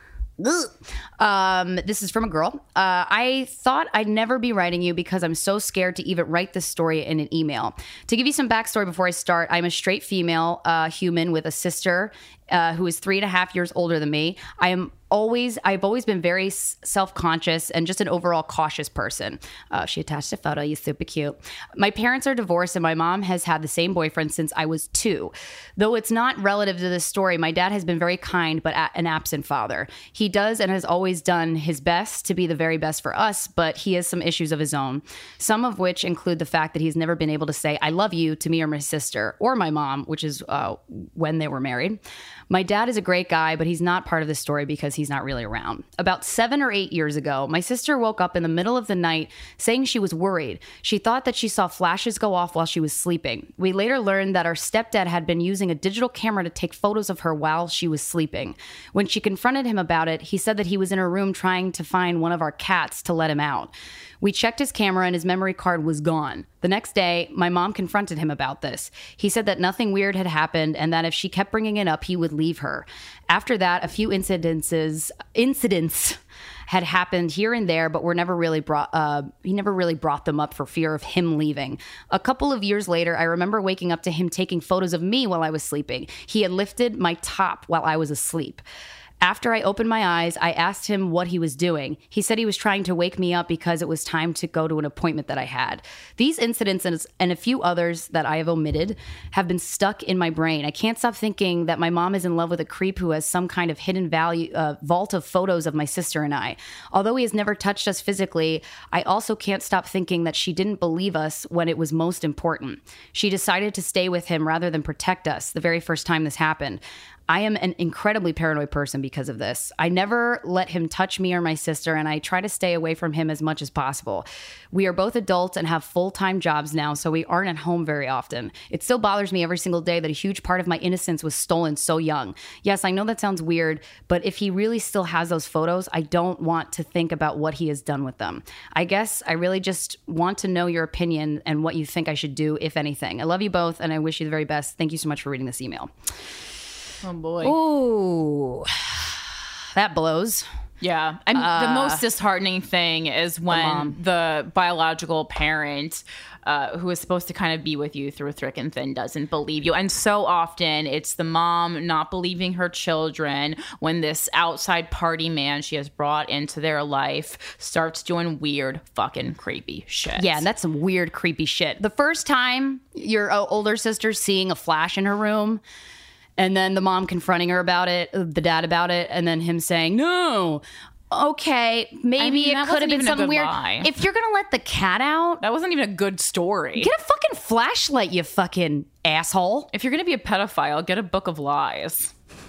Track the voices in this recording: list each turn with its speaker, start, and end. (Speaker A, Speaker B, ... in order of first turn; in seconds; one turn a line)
Speaker A: 0.4-88.6
Speaker A: 89.2-145.9
Speaker B: 147.0-147.6
Speaker A: 147.4-149.2
Speaker A: 149.7-150.4
Speaker B: 150.8-170.4
Speaker A: 151.3-152.0
Speaker A: 153.5-154.0
Speaker A: 170.2-175.6
Speaker A: 176.4-185.4
Speaker B: 182.2-183.9
Speaker B: 185.4-186.9
Speaker A: 186.8-189.7
Speaker B: 189.7-192.1